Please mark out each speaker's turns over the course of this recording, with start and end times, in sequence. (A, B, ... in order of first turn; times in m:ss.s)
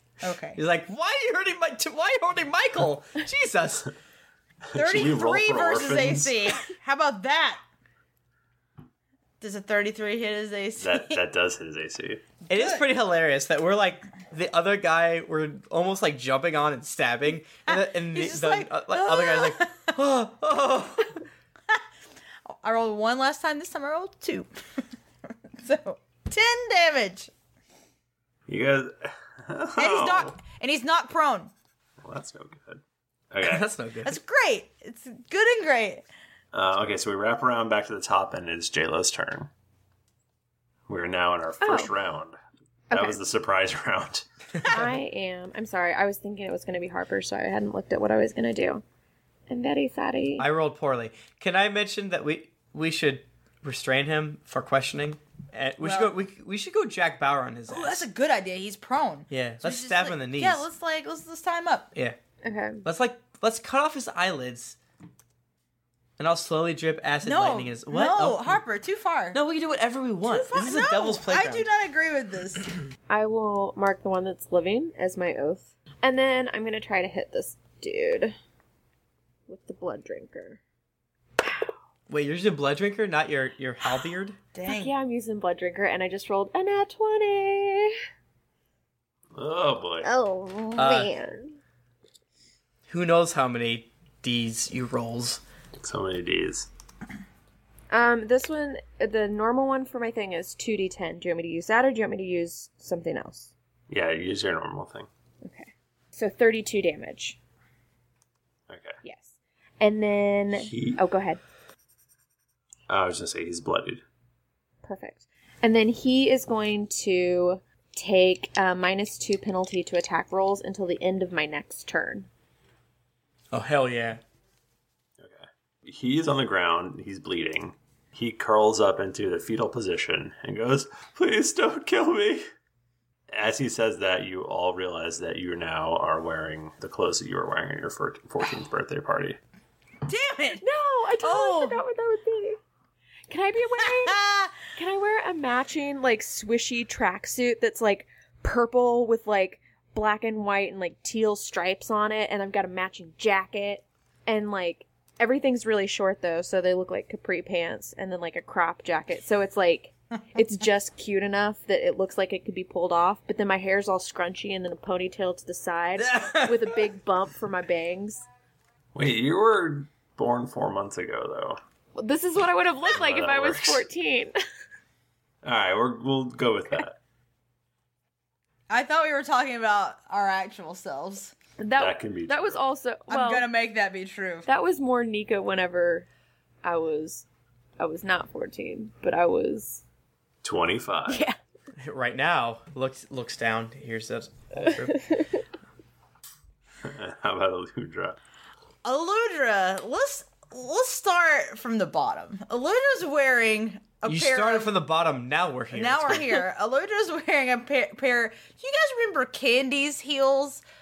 0:00.2-0:00.6 A
0:00.6-0:03.9 B
0:04.7-0:06.4 C
0:04.7-0:07.6 A
0:09.4-0:11.2 A
0:10.8-0:12.2 C
0:12.5-0:12.8 A
0:12.5-0:21.1 B
0:17.7-0:19.9 A
0:22.5-0:24.5 A
0:25.6-0:27.3 A
0:28.5-0:30.4 C
0:29.8-0:31.5 A
0:32.0-0:33.7 C
0:33.4-0:34.2 B
0:34.0-0:36.0 A
0:36.5-0:39.5 C
0:40.9-0:42.4 C
0:41.6-0:41.9 D
0:42.9-0:43.2 D
0:42.9-0:44.2 C
0:44.7-0:48.8 D
0:49.5-0:50.4 D
0:50.4-0:58.0 B
0:55.8-0:56.1 A
0:57.7-1:01.9 A
0:59.3-1:00.6 B
1:02.4-1:02.8 D
1:02.8-1:04.8 B
1:06.2-1:08.6 B
1:07.2-1:09.4 A
1:09.3-1:11.7 B
1:10.3-1:12.7 A
1:13.1-1:18.3 D
1:19.5-1:20.6 D
1:21.4-1:21.7 D
1:22.1-1:24.4 B
1:24.5-1:24.9 A
1:24.7-1:27.9 D
1:29.3-1:30.1 C
1:30.0-1:31.6 D
1:30.8-1:31.1 B
1:32.9-1:35.4 B
1:35.8-1:36.7 C
1:37.9-1:43.5 D
1:43.9-1:45.1 C
1:45.4-1:47.4 D
1:48.7-1:49.0 C
1:49.0-1:51.4 D
1:50.6-1:51.0 C
1:52.9-1:54.0 C
1:54.8-2:02.3 D
2:03.5-2:04.2 B
2:05.2-2:12.5 C
2:13.3-2:19.4 C
2:20.0-2:20.6 A
2:20.6-2:22.6 D
2:21.2-2:21.8 A
2:23.3-2:24.2 D
2:24.0-2:24.5 A
2:24.7-2:48.2 D
2:45.9-2:46.8 B
2:48.9-2:51.6 C
2:51.9-2:54.3 D
2:52.8-2:53.8 C
2:55.4-2:57.0 C
2:58.7-3:01.3 A
3:01.6-3:03.4 D
3:01.7-3:02.7 C
3:03.1-3:04.5 A
3:04.4-3:06.1 D
3:06.6-3:07.3 D
3:07.8-3:09.8 D
3:10.4-3:11.3 C
3:11.1-3:11.3 D
3:11.8-3:15.0 B
3:16.8-3:18.2 C
3:18.8-3:24.7 A
3:24.0-3:26.4 B
3:25.7-3:30.6 A